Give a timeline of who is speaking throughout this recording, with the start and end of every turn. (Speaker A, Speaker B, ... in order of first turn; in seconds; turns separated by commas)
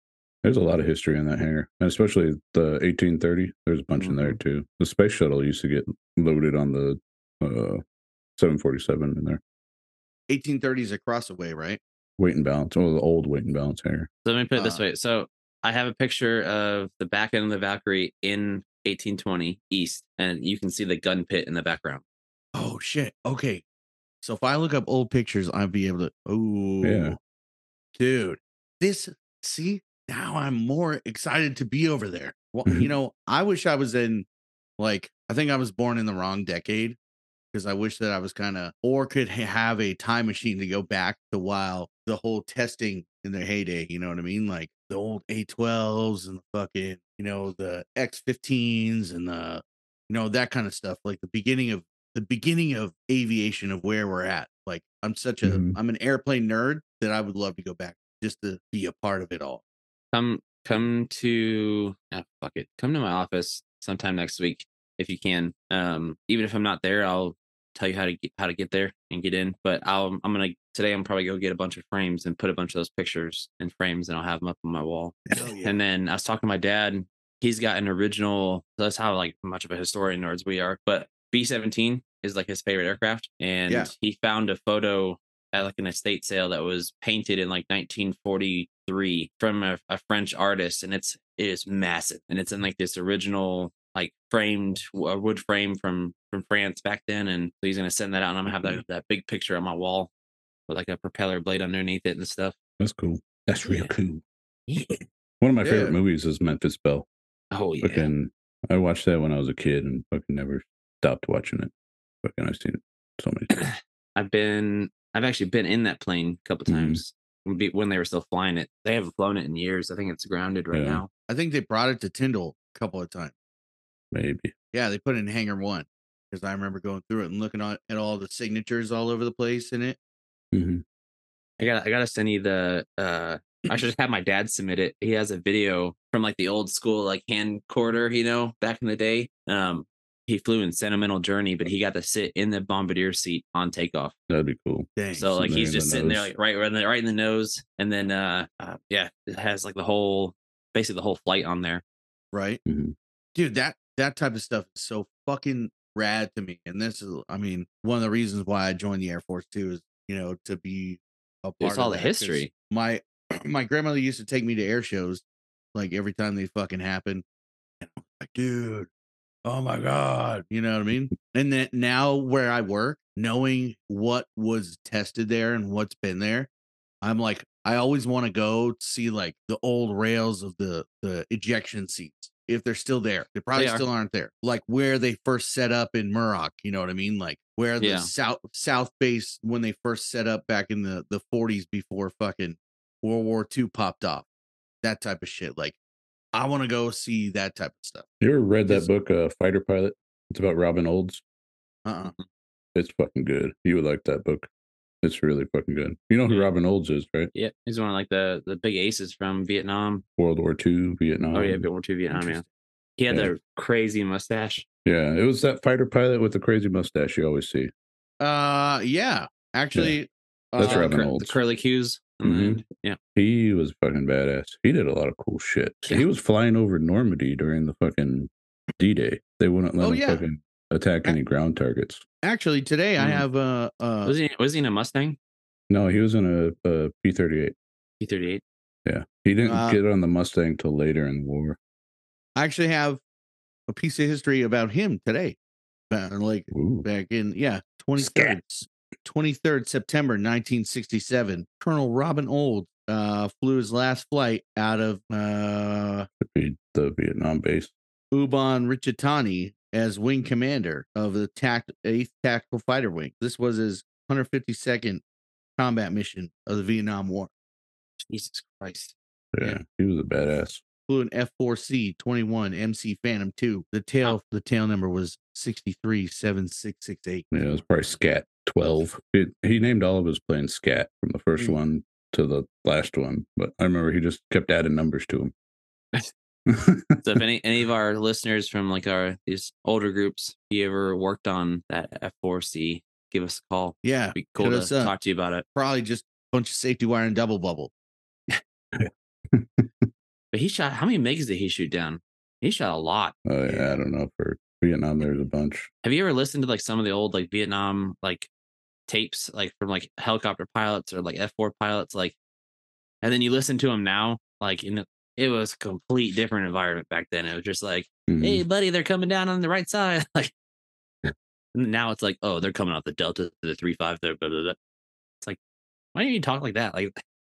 Speaker A: 0.4-7.8, Speaker B: 4.0-4.4, Speaker A: 8.4-9.4, Speaker C: 10.3-11.8, Speaker A: 12.2-14.1, Speaker B: 14.2-22.0, Speaker C: 14.6-14.8, Speaker C: 22.6-23.6, Speaker C: 24.2-27.2, Speaker A: 26.8-27.2, Speaker C: 27.9-34.3, Speaker C: 34.8-37.0, Speaker C: 37.5-59.6, Speaker A: 55.4-55.8, Speaker B: 60.1-100.1, Speaker C: 75.3-75.8, Speaker B: 100.7-102.6, Speaker A: 102.8-104.2, Speaker B: 103.6-103.9, Speaker A: 105.4-107.1, Speaker C: 105.6-106.0, Speaker B: 107.5-108.1, Speaker A: 107.8-111.7, Speaker A: 112.2-113.7, Speaker B: 113.5-121.1, Speaker A: 116.7-117.0, Speaker A: 120.7-121.0, Speaker C: 121.3-123.3, Speaker A: 124.1-124.5, Speaker C: 124.7-130.0, Speaker A: 130.5-130.8, Speaker B: 131.6-144.1, Speaker A: 144.3-146.3, Speaker C: 145.0-145.5, Speaker B: 145.1-151.8, Speaker C: 152.3-152.6, Speaker A: 152.7-152.9, Speaker C: 153.3-165.2, Speaker B: 161.6-162.5, Speaker C: 165.8-167.2, Speaker C: 167.8-168.9, Speaker C: 169.4-176.5, Speaker C: 177.0-194.3, Speaker B: 183.6-183.8, Speaker B: 187.8-188.1, Speaker C: 194.8-195.8, Speaker C: 196.3-198.1, Speaker A: 198.2-201.2, Speaker C: 201.8-202.1, Speaker A: 202.8-204.5, Speaker A: 205.0-207.3, Speaker B: 207.3-210.0, Speaker A: 210.2-211.7, Speaker B: 211.3-212.4, Speaker C: 212.1-212.4, Speaker B: 213.0-214.7, Speaker A: 214.8-217.7, Speaker C: 218.2-220.9, Speaker A: 220.6-221.4, Speaker B: 220.6-223.0, Speaker A: 222.2-222.6, Speaker A: 223.2-232.0, Speaker C: 229.8-230.2, Speaker C: 232.2-234.2, Speaker B: 233.0-233.2, Speaker B: 234.1-235.2, Speaker A: 235.7-237.6, Speaker B: 238.0-238.4, Speaker A: 238.9-241.6, Speaker C: 239.5-239.8, Speaker C: 242.4-243.0, Speaker C: 243.7-245.4, Speaker C: 245.9-256.1, Speaker A: 246.5-246.9, Speaker A: 248.0-248.3, Speaker A: 256.2-257.7, Speaker C: 258.1-265.0, Speaker C: 265.6-267.3, Speaker B: 268.1-268.9, Speaker A: 269.3-270.6, Speaker C: 270.9-277.5, Speaker A: 277.3-285.3, Speaker A: 286.5-287.0, Speaker B: 287.0-295.4, Speaker C: 293.8-294.9, Speaker C: 295.6-297.7, Speaker A: 298.7-299.8, Speaker B: 300.3-303.1, Speaker A: 303.3-305.7, Speaker C: 303.5-303.8, Speaker B: 305.8-308.3, Speaker B: 308.9-312.1, Speaker B: 313.0-320.3, Speaker A: 318.1-318.4, Speaker B: 321.5-324.6, Speaker B: 325.9-326.9